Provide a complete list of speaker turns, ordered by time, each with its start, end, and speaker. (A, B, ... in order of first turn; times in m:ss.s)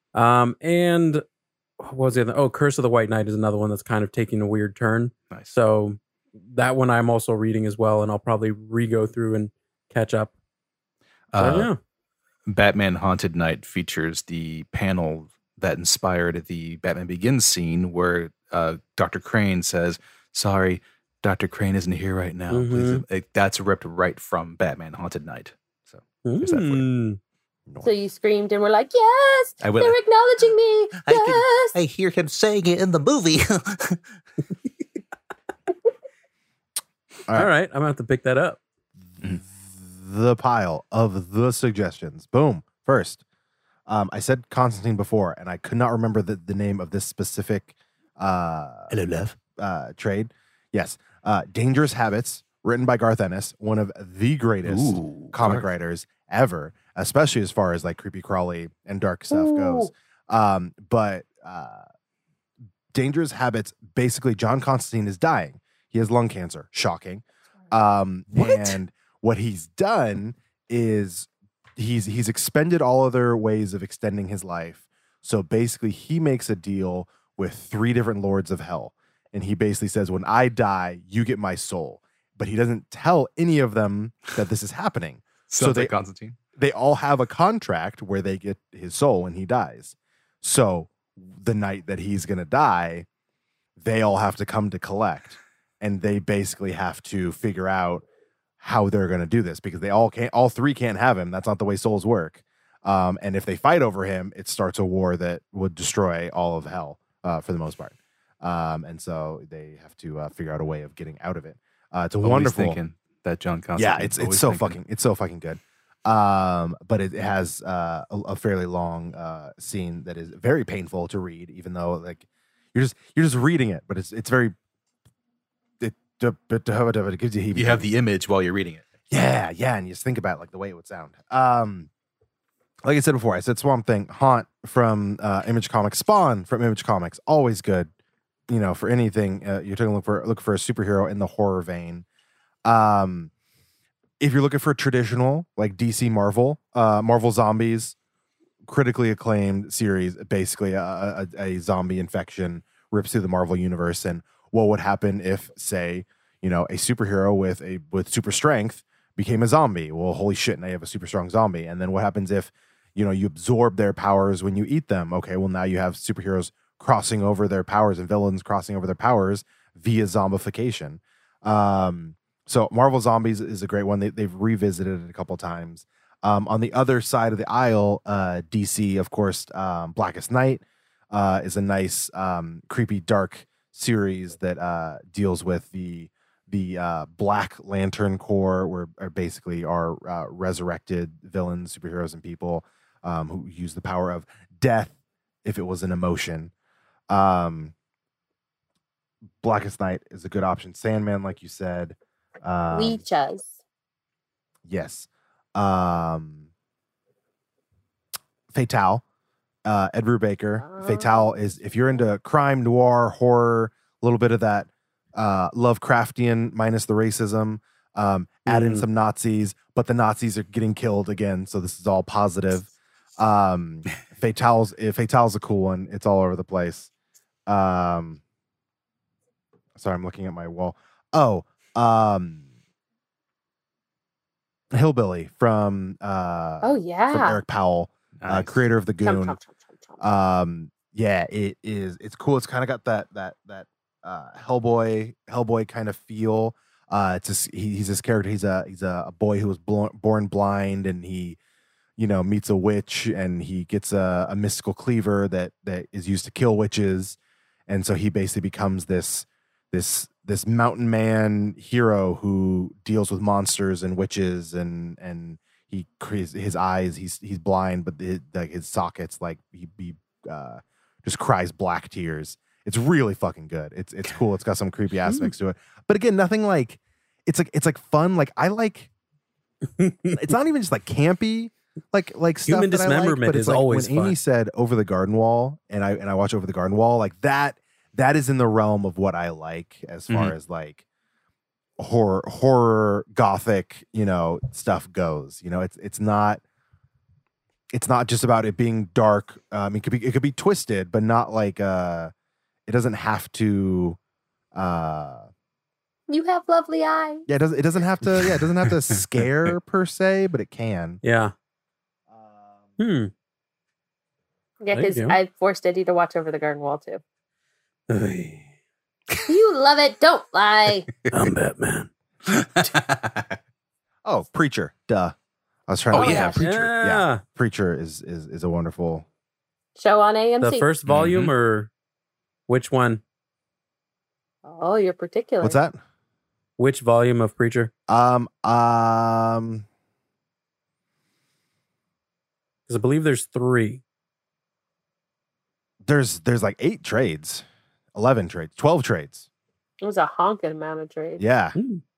0:00.1-0:01.2 A
0:01.8-0:10.3 A
0:11.3-0:11.7 B
0:11.4-0:11.8 A
0:12.5-0:26.9 B
0:22.5-0:23.0 A
0:26.2-0:27.2 A
0:27.8-0:31.8 C
0:29.6-0:30.0 B
0:31.0-0:34.0 B
0:37.3-0:38.6 A
0:39.2-0:43.2 D
0:43.9-0:48.9 D
0:48.9-0:49.4 B
0:49.6-1:01.8 D
0:54.6-0:55.7 B
0:59.3-0:59.9 C
1:02.9-1:25.9 D
1:25.5-1:26.4 B
1:26.6-1:33.1 D
1:33.8-1:38.0 D
1:38.6-1:52.8 D
1:52.2-1:54.8 B
1:53.8-2:04.6 D
2:05.8-2:07.9 D
2:07.6-2:08.8 B
2:09.1-2:11.9 D
2:12.8-2:17.9 D
2:18.5-2:22.0 D
2:22.6-2:23.3 D
2:24.2-2:28.0 D
2:28.6-3:14.9 D
3:15.4-3:16.5 D
3:17.1-3:17.7 D
3:19.4-3:23.0 D
3:22.7-3:23.6 C
3:24.6-3:26.5 D
3:28.5-3:29.0 D
3:29.6-3:46.9 D
3:30.6-3:31.4 C
3:38.5-3:38.9 A
3:47.5-3:48.2 D
3:49.8-3:52.4 D
3:54.7-3:59.4 D
3:56.6-3:57.4 C
3:58.2-3:58.6 B
3:59.0-4:00.0 C
4:00.0-4:11.4 D
4:12.0-4:17.2 D
4:17.7-4:38.9 D
4:35.1-4:35.3 A
4:39.8-4:40.2 A
4:40.1-4:50.8 D
4:42.5-4:44.2 A
4:50.1-4:50.4 B
4:51.8-4:56.4 D
4:57.7-5:02.1 D
5:02.7-5:04.0 D
5:04.5-5:05.3 D
5:06.1-5:07.3 C
5:07.3-5:11.0 D
5:11.0-5:11.3 A
5:12.1-5:12.6 D
5:12.8-5:13.1 A
5:14.6-5:17.0 C
5:14.7-5:15.2 A
5:17.9-5:18.5 A
5:19.3-5:20.9 C
5:21.1-5:21.9 A
5:22.3-5:23.4 B
5:24.0-5:25.1 D
5:25.7-5:29.0 D
5:25.9-5:26.4 C
5:25.9-5:26.4 B
5:26.4-5:27.2 A
5:29.8-5:30.7 C
5:30.4-5:31.7 A
5:30.9-5:31.3 B
5:32.5-5:33.0 A
5:34.4-5:35.6 C
5:35.4-5:35.8 D
5:36.6-5:37.7 A
5:37.9-5:39.6 D
5:42.7-5:43.8 A
5:45.8-5:49.3 D
5:49.8-5:51.2 C
5:51.2-5:51.6 D
5:51.6-5:51.8 A